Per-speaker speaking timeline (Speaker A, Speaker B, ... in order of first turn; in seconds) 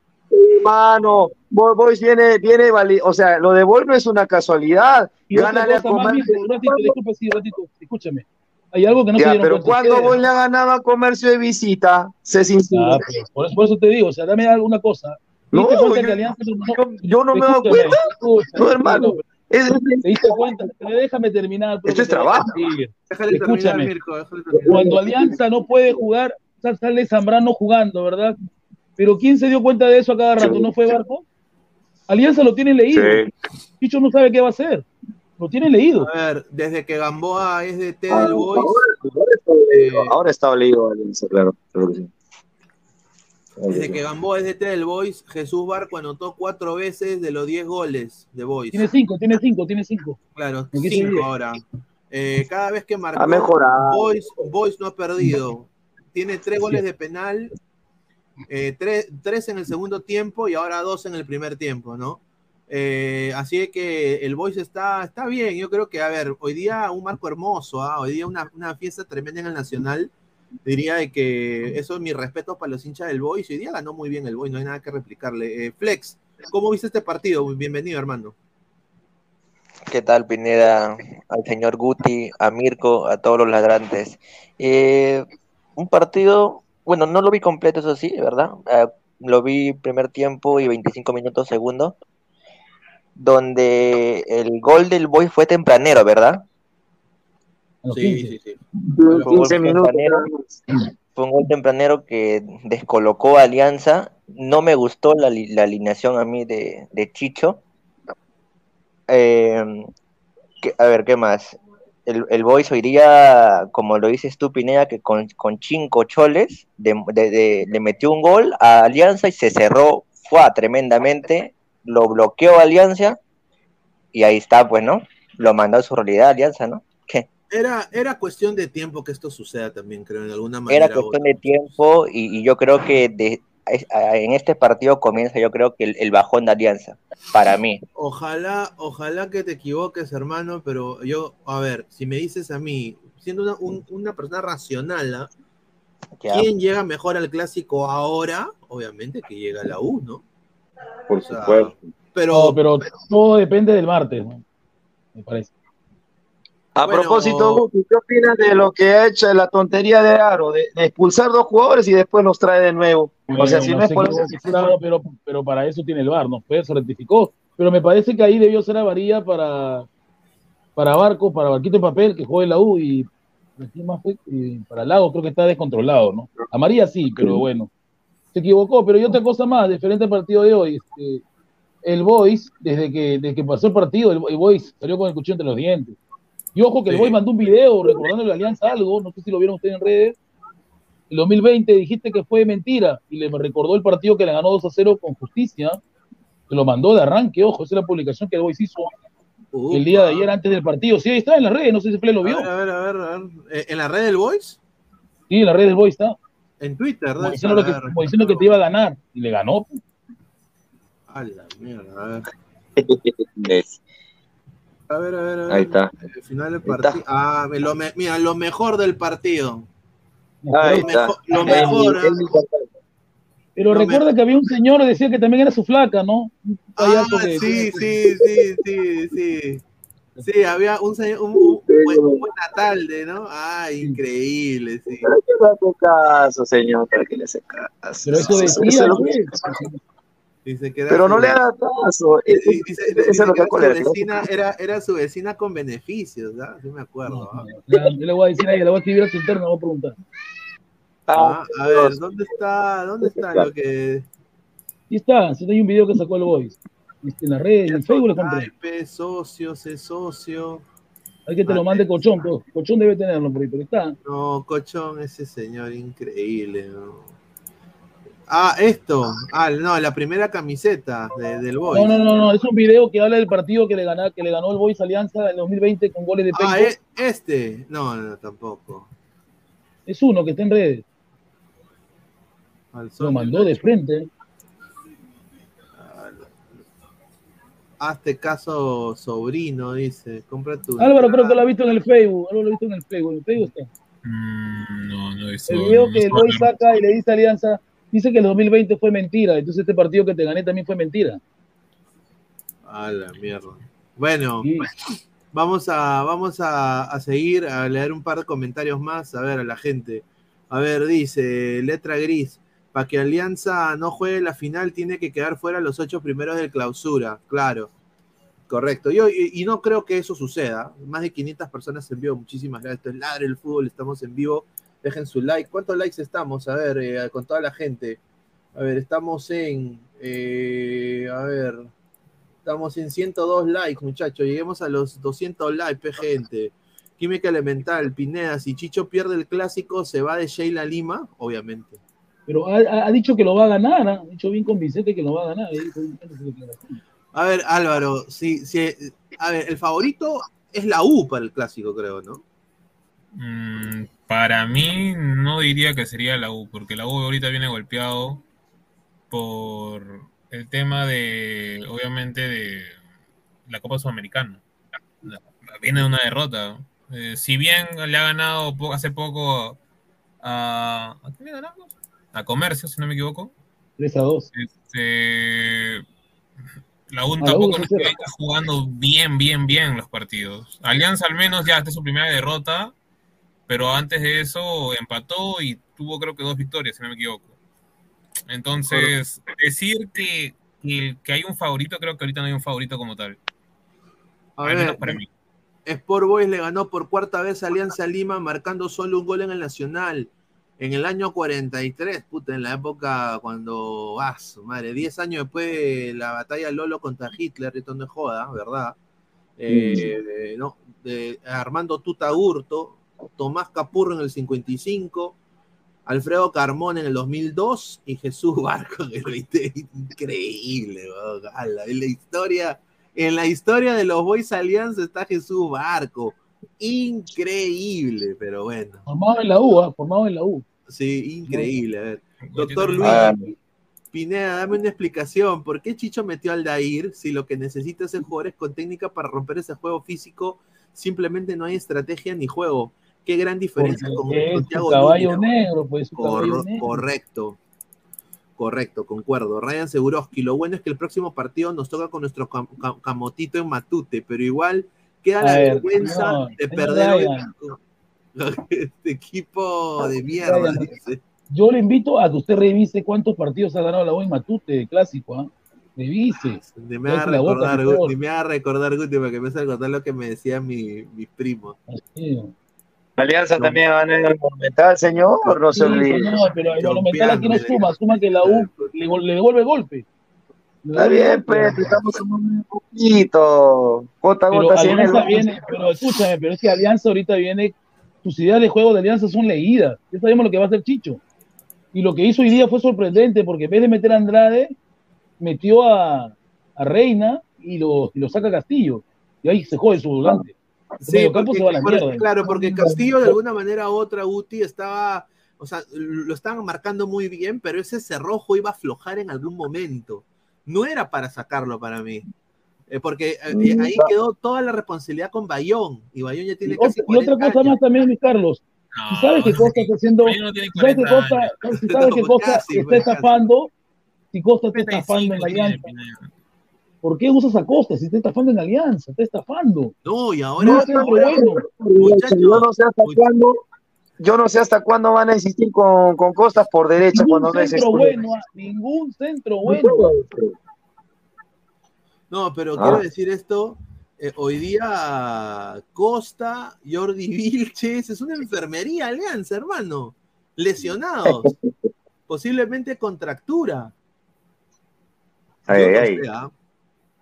Speaker A: 0.3-6.9, 9.1-13.0, 15.5-16.2, 16.7-18.0, 18.5-20.5, 21.9-22.6, 24.5-25.3, 30.4-30.7, 32.9-33.3, 38.1-42.1, 43.6-44.0, 53.1-54.1, 98.8-100.6, 151.1-151.9, 156.7-164.7, 177.2-177.4, 212.8-213.8, 215.5-215.9, 216.6-217.0, 220.5-222.7, 227.4-228.4, 231.3-232.2, 235.0-239.6, 240.9-244.2, 251.1-252.0, 253.0-253.5, 409.5-409.9, 432.8-433.3, 473.0-476.1, 480.7-485.4, 502.2-503.1, 513.3-513.9, 530.4-533.4, 534.0-538.0, 539.4-540.3, 542.6-542.8, 551.0-551.5, 555.5-556.0
Speaker B: 5.3-10.2, 12.7-19.2, 20.0-23.9, 24.6-28.4, 29.0-31.2, 32.1-33.2, 33.8-34.9, 35.4-36.1, 48.7-50.2, 50.7-51.3, 97.8-98.3, 152.3-154.4, 155.1-155.5, 163.3-169.8, 170.8-173.1, 173.6-177.7, 178.3-181.2, 181.8-185.9, 186.5-190.2, 191.1-195.8, 196.5-198.9, 199.7-202.5, 205.3-206.2, 207.2-209.8, 220.4-221.9, 223.6-227.8, 238.0-239.7, 247.1-250.0, 254.9-258.5, 261.3-263.9, 271.7-276.7, 279.9-280.8, 283.0-284.1, 290.8-293.7, 295.5-301.2, 304.4-304.7, 342.3-346.8, 373.8-374.3, 377.2-378.0, 428.9-430.4, 431.3-431.5, 443.6-446.8, 455.2-457.3, 460.1-460.7, 461.3-467.9, 471.7-472.3, 475.5-479.8, 480.6-481.8, 484.3-491.0, 491.7-494.5, 495.2-500.3, 500.9-502.7, 516.5-523.5, 524.1-525.7, 526.8-529.7, 530.4-531.4, 536.8-539.9
Speaker C: 23.1-25.0, 36.0-39.1, 39.7-40.1, 43.7-48.9, 50.4-57.5, 58.5-70.1, 70.6-78.3, 97.9-99.4, 127.5-131.7, 137.9-145.3, 146.3-150.2, 151.3-152.6, 156.8-157.7, 186.9-187.2, 199.5-200.3, 202.2-204.6, 206.6-208.5, 211.1-212.3, 214.9-219.7, 220.7-222.1, 223.7-224.1, 226.8-229.6, 230.2-235.1, 238.1-238.7, 240.4-241.4, 242.3-247.5, 251.1-254.1, 257.6-260.6, 261.5-262.1, 264.0-267.1, 268.3-271.9, 276.3-278.9, 282.7-283.6, 285.8-286.3, 287.8-291.4, 302.6-304.5, 305.3-317.7, 318.5-328.0, 328.5-331.7, 332.4-341.8, 347.1-352.2, 388.6-388.9, 394.4-395.0, 395.6-408.8, 409.4-415.2, 415.9-428.8, 430.7-433.2, 433.9-445.2, 445.9-447.4, 448.4-457.6, 458.1-461.0, 466.4-471.6, 475.2-475.9, 476.6-478.7, 500.8-512.0, 512.7-517.6, 521.6-523.2, 529.8-533.0, 542.1-551.3, 552.1-553.7, 555.5-556.3
Speaker D: 79.9-91.9, 93.2-96.4, 99.2-100.2, 101.1-107.6, 109.1-109.9, 110.6-123.2, 124.1-127.3, 130.7-137.8, 146.2-146.5
Speaker E: 294.0-296.5, 353.1-358.2, 359.1-362.8, 363.4-364.4, 365.0-369.6, 370.2-373.3, 374.3-375.8, 376.9-382.7, 383.5-387.3, 388.3-393.2, 394.4-395.1, 432.2-433.1, 518.7-521.4, 524.5-526.1